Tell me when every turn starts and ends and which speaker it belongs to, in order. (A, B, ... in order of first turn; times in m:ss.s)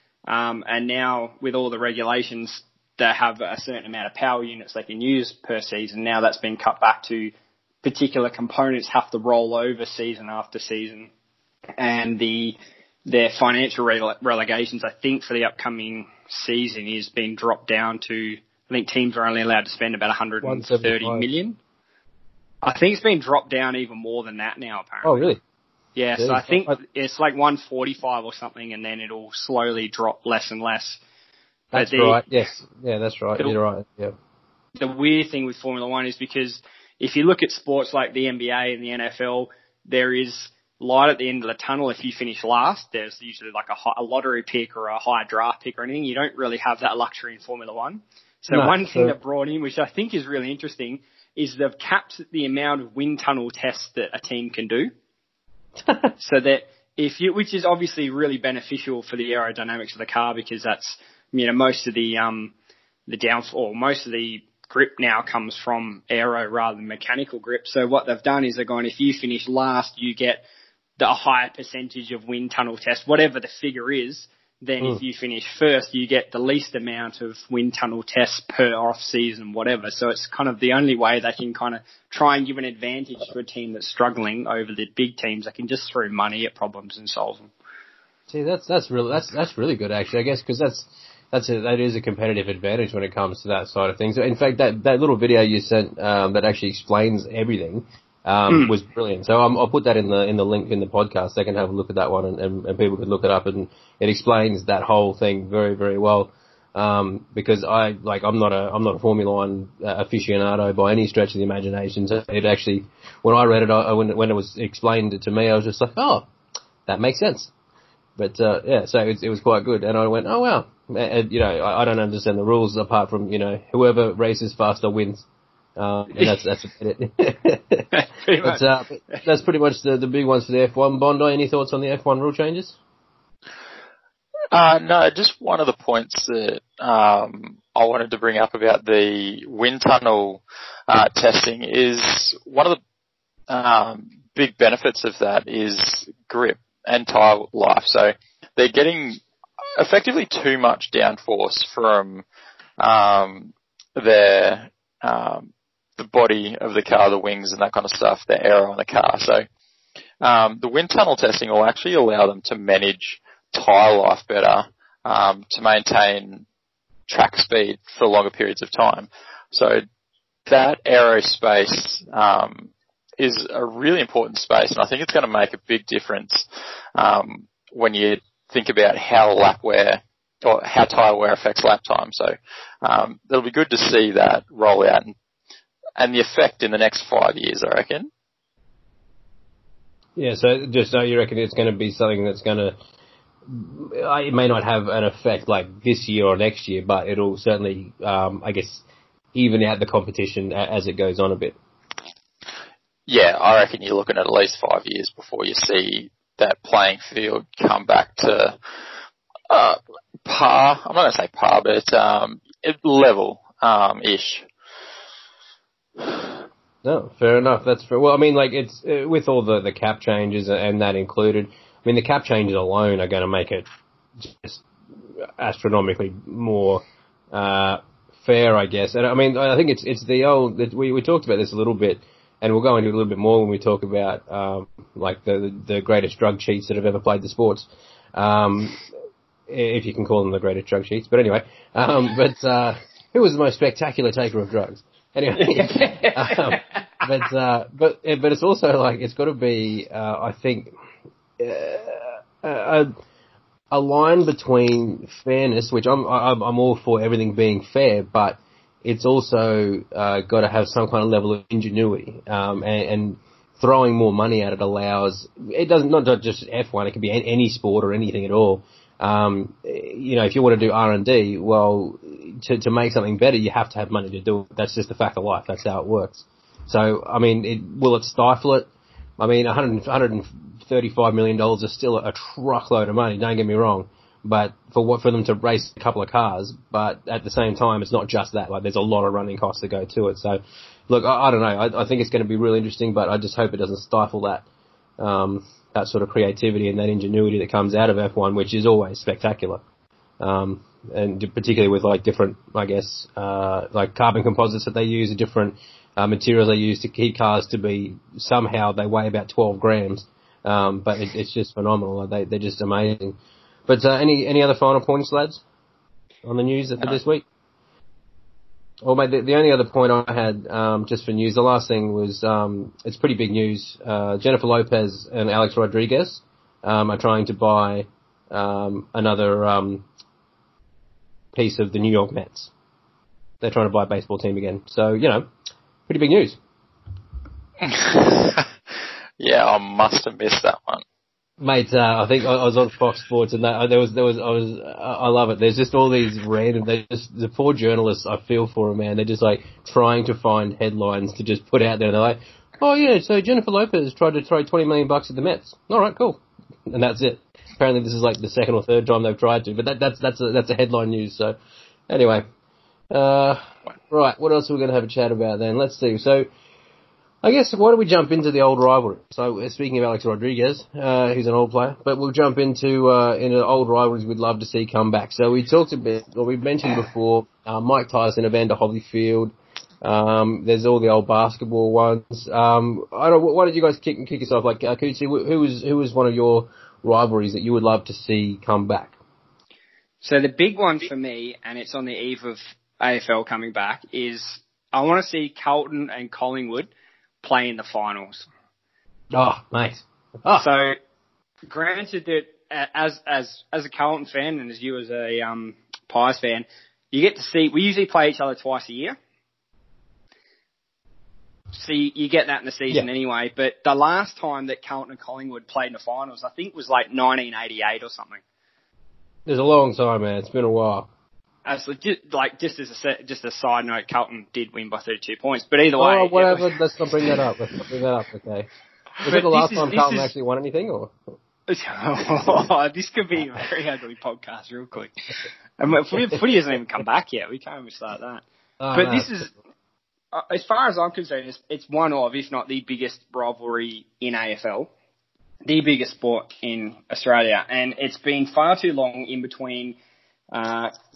0:00.3-0:07.3 A
0:07.8-0:11.1 A
0:11.8-0:21.6 A
0:20.4-0:21.2 B
0:22.6-0:25.3 A
0:25.0-0:25.4 B
0:25.9-0:31.0 A
0:26.2-0:26.8 B
0:31.7-0:34.1 B
0:31.7-0:32.2 A
0:34.8-0:54.9 A
0:48.5-0:49.2 B
0:56.2-1:02.5 A
1:03.1-1:10.4 A
1:11.0-1:27.5 A
1:28.3-1:56.3 B
1:56.9-1:57.5 B
1:58.2-2:05.2 B
2:05.8-2:07.9 B
2:07.9-2:09.2 A
2:08.4-2:12.8 B
2:14.5-2:22.8 C
2:23.5-2:29.2 C
2:29.8-2:32.2 C
2:32.8-2:39.4 C
2:40.2-2:46.4 C
2:47.1-2:49.8 C
2:50.5-2:56.4 C
2:57.0-3:05.1 C
3:06.0-3:08.1 C
3:10.2-3:12.7 B
3:13.4-3:21.6 B
3:23.1-3:28.6 C
3:29.5-3:34.4 C
3:36.8-3:44.6 B
3:45.2-3:58.8 B
3:59.5-4:10.7 B
4:05.4-4:07.0 A
4:11.4-4:12.9 B
4:13.7-4:54.4 B
4:55.0-4:59.6 B
5:00.2-5:15.4 B
5:16.2-5:17.2 B
5:18.8-5:29.8 B
5:31.3-5:32.5 B
5:33.4-5:35.3 B
5:35.9-5:36.4 B
5:37.6-5:38.5 C
5:39.2-5:40.8 C
5:41.4-6:01.3 B
6:01.9-6:02.2 B
6:02.9-6:06.3 B
6:07.2-6:28.9 B
6:30.0-6:36.7 A
6:37.2-6:38.3 A
6:39.1-6:40.4 B
6:40.3-6:40.7 A
6:41.4-6:49.0 A
6:51.5-6:58.2 A
6:59.2-7:00.9 B
7:01.4-7:07.2 A
7:05.8-7:08.5 B
7:09.0-7:10.1 A
7:09.0-7:10.9 B
7:11.5-7:14.9 A
7:15.6-7:18.2 A
7:18.6-7:19.1 B
7:18.7-7:19.3 A
7:20.1-7:24.7 A
7:25.4-7:29.8 A
7:30.3-7:30.7 A